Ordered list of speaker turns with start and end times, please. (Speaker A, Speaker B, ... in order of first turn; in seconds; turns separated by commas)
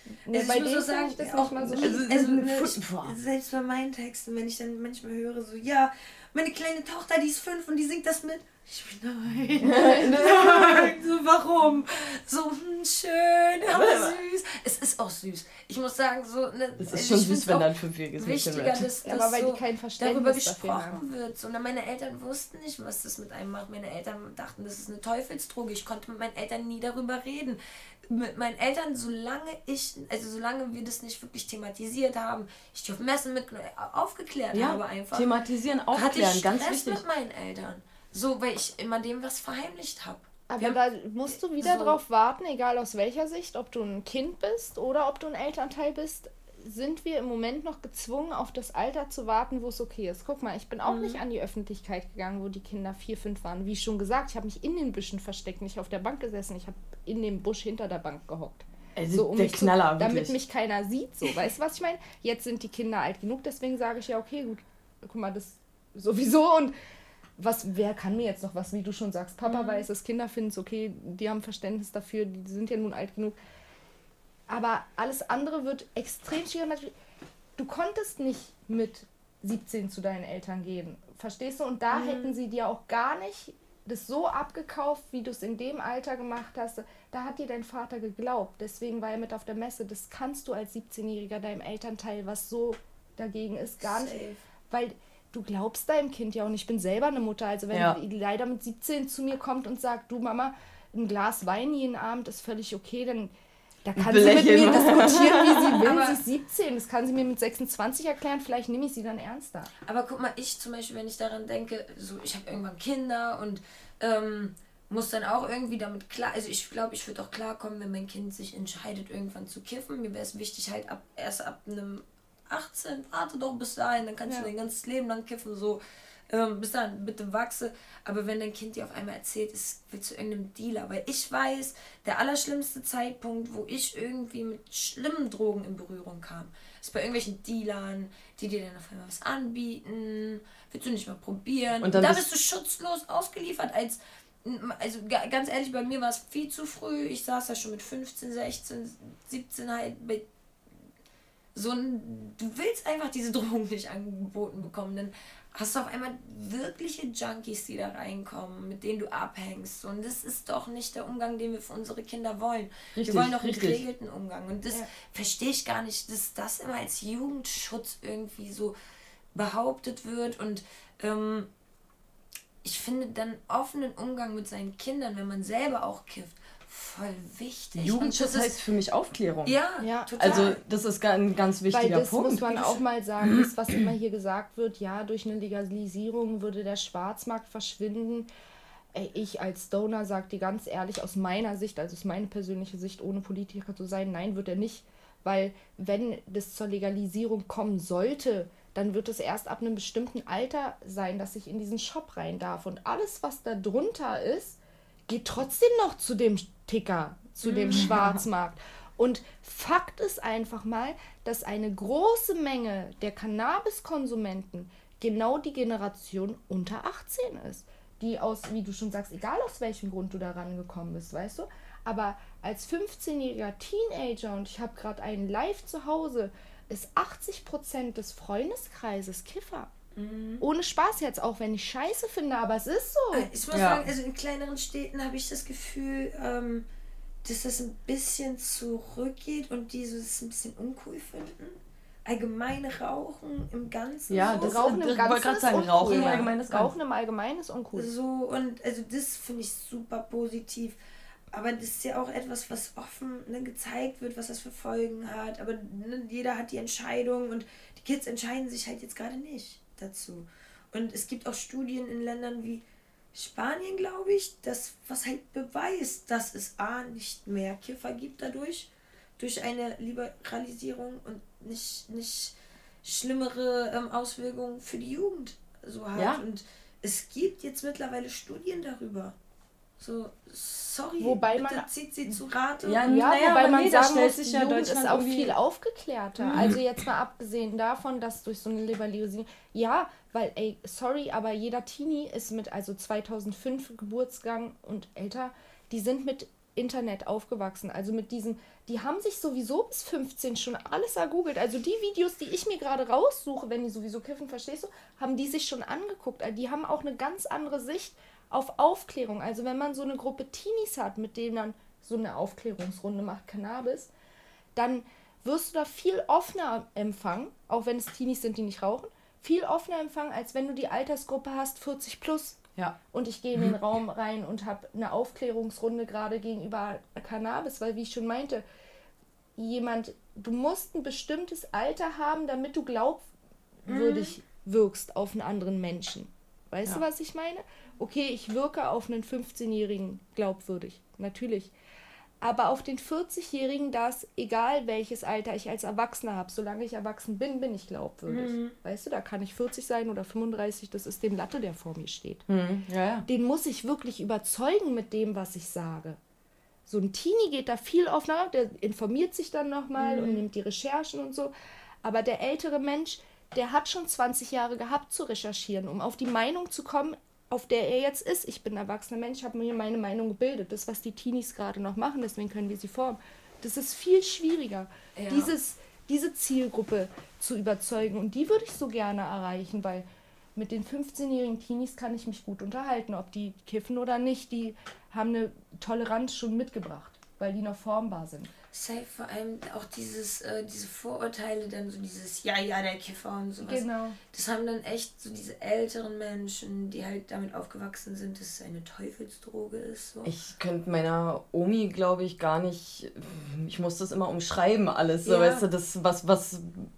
Speaker A: 0.3-2.0, Speaker B: 0.3-35.3, Speaker C: 1.8-3.1, Speaker C: 9.6-10.9, Speaker C: 13.7-14.2, Speaker C: 16.8-18.9, Speaker A: 19.1-21.0, Speaker C: 34.5-37.0, Speaker B: 35.9-40.8, Speaker A: 40.5-66.7, Speaker B: 41.5-42.0, Speaker B: 50.9-51.2, Speaker C: 59.0-60.4, Speaker A: 67.4-73.4, Speaker B: 69.5-69.8, Speaker A: 74.5-76.9, Speaker A: 77.6-94.2, Speaker B: 81.9-82.3, Speaker B: 93.8-94.4, Speaker A: 94.7-103.3, Speaker C: 97.7-98.0, Speaker A: 103.8-109.7, Speaker C: 104.0-105.8, Speaker B: 105.7-106.2, Speaker B: 109.8-150.3, Speaker C: 141.8-142.2, Speaker B: 151.6-168.8, Speaker C: 163.0-163.8, Speaker B: 169.3-171.5, Speaker B: 172.6-178.6, Speaker C: 177.8-179.6, Speaker B: 179.4-180.6, Speaker A: 179.8-180.5, Speaker C: 180.2-182.8, Speaker A: 181.7-188.3, Speaker A: 188.9-229.7, Speaker B: 207.4-207.9, Speaker B: 229.9-230.4, Speaker A: 230.4-233.3, Speaker B: 233.1-236.7, Speaker C: 233.5-233.9, Speaker B: 237.2-244.6, Speaker C: 244.1-246.7, Speaker A: 244.2-247.9, Speaker B: 245.9-246.3, Speaker B: 247.8-250.8, Speaker B: 251.3-279.2, Speaker C: 275.9-276.2, Speaker B: 279.8-282.8, Speaker A: 281.0-281.7, Speaker C: 282.6-285.3, Speaker A: 282.9-313.9, Speaker B: 286.2-286.5, Speaker A: 314.6-322.4, Speaker A: 322.9-328.4, Speaker A: 329.4-333.1, Speaker A: 333.6-341.5, Speaker B: 333.7-334.1, Speaker A: 342.2-352.2, Speaker B: 348.1-348.6, Speaker C: 352.3-353.1, Speaker A: 353.1-356.0, Speaker A: 356.7-361.3, Speaker B: 359.8-360.2, Speaker A: 361.8-388.3, Speaker B: 374.9-375.3, Speaker B: 388.5-400.1, Speaker A: 393.4-394.0, Speaker C: 400.1-406.7, Speaker B: 405.1-405.4